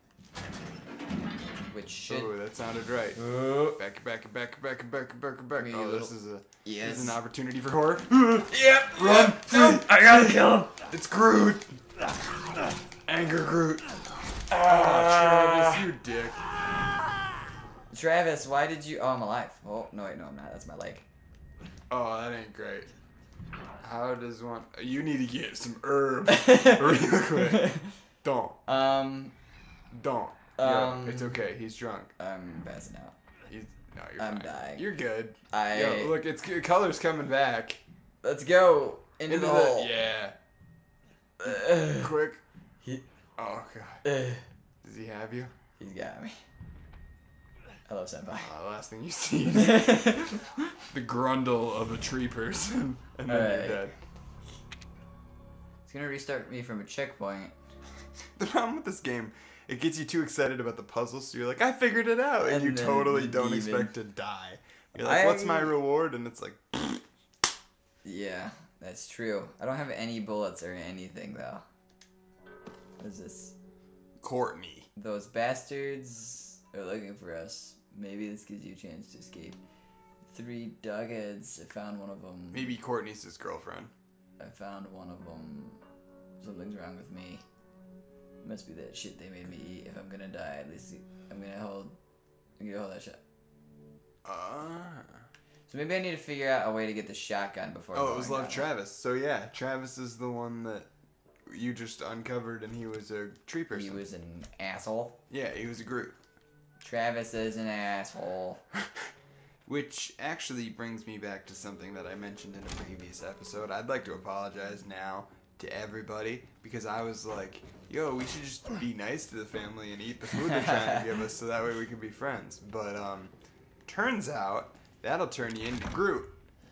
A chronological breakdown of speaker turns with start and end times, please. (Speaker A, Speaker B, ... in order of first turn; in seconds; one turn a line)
Speaker A: 1.7-2.3
Speaker B: 2.1-11.7
Speaker A: 3.1-3.8
Speaker A: 5.6-6.1
Speaker A: 6.6-7.2
Speaker A: 8.5-10.7
Speaker B: 13.0-16.4
Speaker A: 14.5-15.9
Speaker A: 17.9-21.1
Speaker B: 21.9-22.9
Speaker B: 23.8-28.6
Speaker A: 26.3-27.9
Speaker A: 28.7-29.4
Speaker B: 29.9-32.1
Speaker A: 30.6-31.4
Speaker A: 32.2-33.1
Speaker B: 33.5-37.8
Speaker A: 34.2-34.9
Speaker A: 35.5-36.1
Speaker A: 38.2-40.0
Speaker B: 39.3-40.4
Speaker A: 41.4-42.1
Speaker B: 41.5-42.4
Speaker B: 43.4-44.0
Speaker A: 44.0-44.5
Speaker B: 44.8-45.5
Speaker A: 45.8-46.4
Speaker A: 47.9-48.5
Speaker B: 48.4-50.0
Speaker A: 49.5-50.7
Speaker B: 50.9-53.9
Speaker A: 53.2-53.9
Speaker A: 55.9-57.5
Speaker B: 58.4-67.0
Speaker A: 62.4-63.9
Speaker A: 65.0-65.8
Speaker A: 68.0-71.6
Speaker A: 73.0-73.5
Speaker B: 74.2-74.9
Speaker A: 75.0-79.6
Speaker A: 80.3-82.7
Speaker B: 82.5-83.9
Speaker A: 84.4-85.8
Speaker A: 86.4-87.4
Speaker A: 88.4-92.0
Speaker A: 92.6-93.2
Speaker B: 94.2-95.2
Speaker A: 95.7-98.7
Speaker B: 97.9-100.9
Speaker B: 101.5-104.0
Speaker A: 103.7-105.2
Speaker B: 105.3-106.2
Speaker A: 106.8-108.6
Speaker B: 109.7-123.3
Speaker A: 120.5-121.0
Speaker B: 123.8-126.4